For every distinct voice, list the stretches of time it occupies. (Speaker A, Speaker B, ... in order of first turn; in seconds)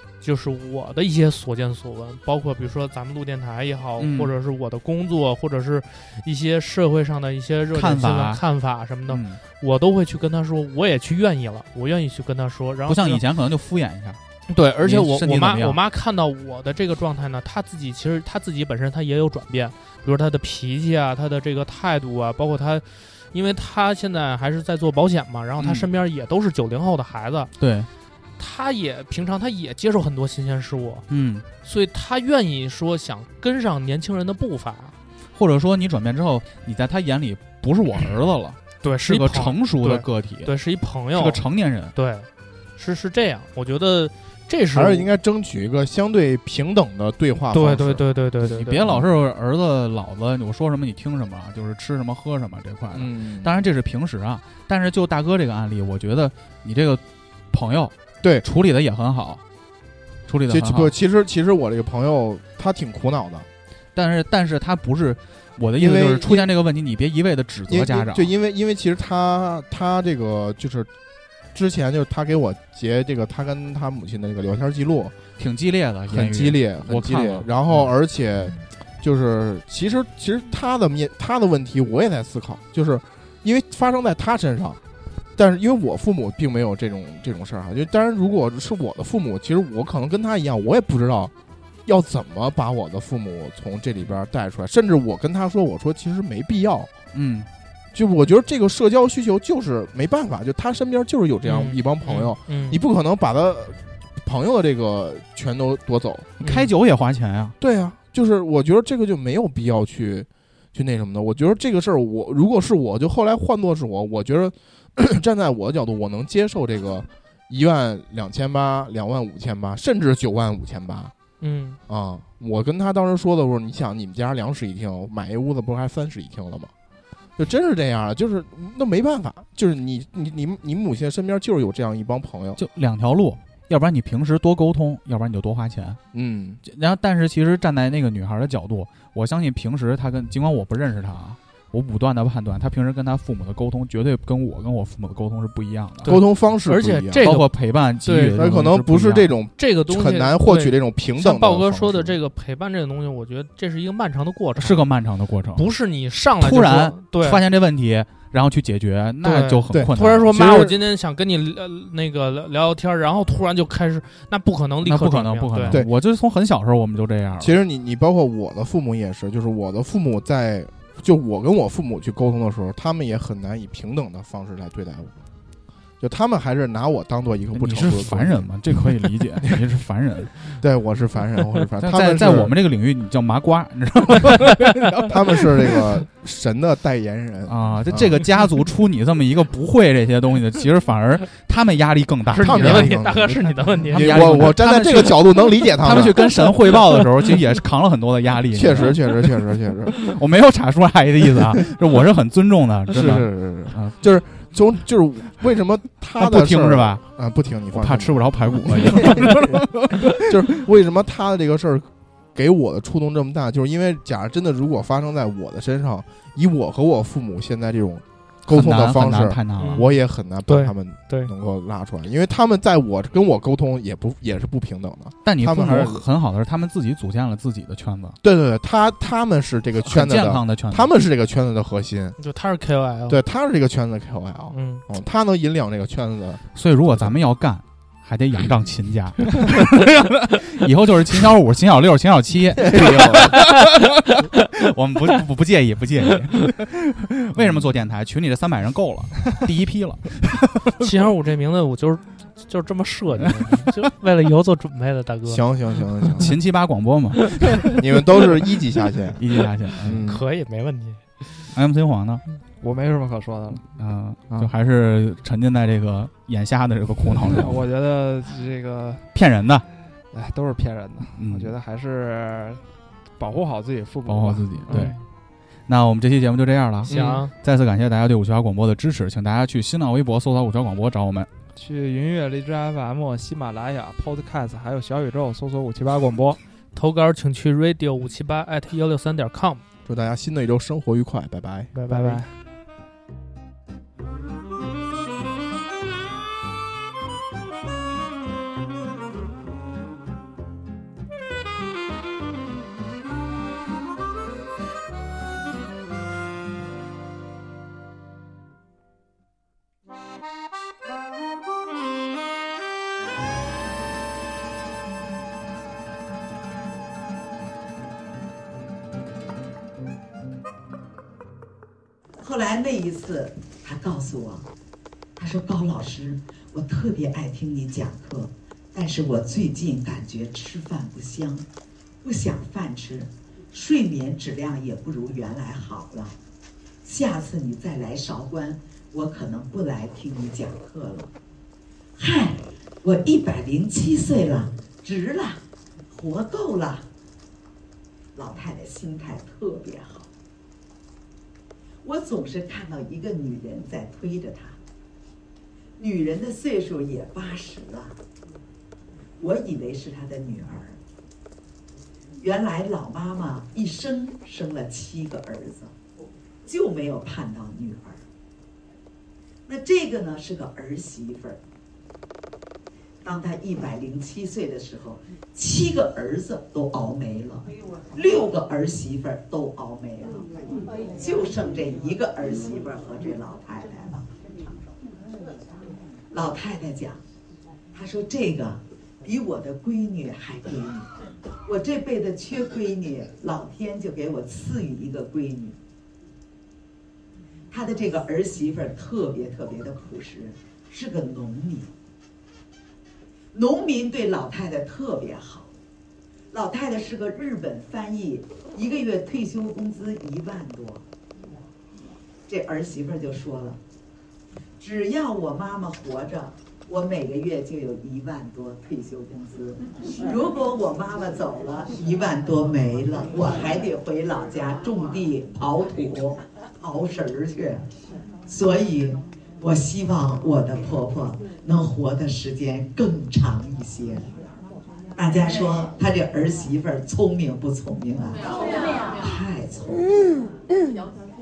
Speaker A: 0.2-13.2, 14.5-27.5, 28.4-31.1, 31.6-35.0, 38.8-45.1, 47.5-48.9, 101.4-102.8, 106.4-106.7, 121.4-121.8, 146.0-147.5, 148.0-148.4, 149.6-154.9, 155.5-157.4, 159.2-165.8, 192.3-194.6, 196.3-197.4, 219.6-221.3, 232.2-233.2, 234.5-234.8, 250.8-255.8, 257.2-257.7, 260.0-261.5, 274.7-275.0, 276.9-277.3, 286.7-289.6, 291.7-292.2
Speaker B: 4.0-4.3, 7.7-8.4, 9.1-9.4, 12.9-14.2, 14.8-15.8, 25.6-25.9, 27.6-27.9, 31.1-31.5, 35.3-40.5, 41.1-41.9, 48.5-59.4, 60.2-60.9, 63.9-68.3, 75.4-77.9, 97.1-97.5, 106.4-107.5, 132.6-136.0, 136.6-146.2, 147.2-149.3, 154.6-155.7, 156.4-160.5, 164.8-167.6, 177.5-180.4, 181.8-185.1, 187.5-193.0, 193.9-199.0, 199.9-204.0, 206.2-207.0, 207.7-209.9, 218.5-219.8, 225.2-228.2, 229.8-230.9, 236.5-250.6, 256.2-257.6, 259.2-260.0, 261.5-262.2, 263.8-267.6, 269.1-269.6, 271.1-271.5, 274.0-274.9, 275.7-281.3
Speaker C: 44.7-48.0, 52.9-53.5, 60.5-63.5, 65.8-66.5, 67.7-70.9, 71.5-75.1, 76.1-84.8, 85.3-91.3, 91.8-96.9, 97.9-106.3, 107.6-121.1, 121.9-126.7, 127.4-132.6, 136.1-136.6, 146.1-147.3, 148.3-152.2, 159.7-160.7, 167.4-175.1, 176.0-179.1, 180.6-182.5, 185.1-188.2, 192.4-196.3, 198.5-199.9, 202.9-226.0, 228.2-232.2, 233.1-236.4, 242.7-243.2, 255.3-256.3, 257.7-259.2, 259.8-260.2, 289.9-291.7
Speaker D: 262.6-263.7, 267.2-269.1, 270.1-272.6, 273.2-274.9, 281.5-286.4, 291.9-292.3
Speaker E: 322.2-324.5, 325.1-331.4, 332.0-336.1, 336.8-341.1, 342.0-346.9, 348.1-350.1, 351.8-354.6, 355.8-358.0, 359.2-360.8, 362.2-365.7, 366.4-368.0, 369.4-371.4, 373.0-384.2, 386.1-387.0, 387.7-390.9, 391.4-395.6, 397.5-401.7, 403.3-405.5, 406.3-410.8, 412.3-413.6, 414.6-427.7, 428.3-434.1, 434.9-440.2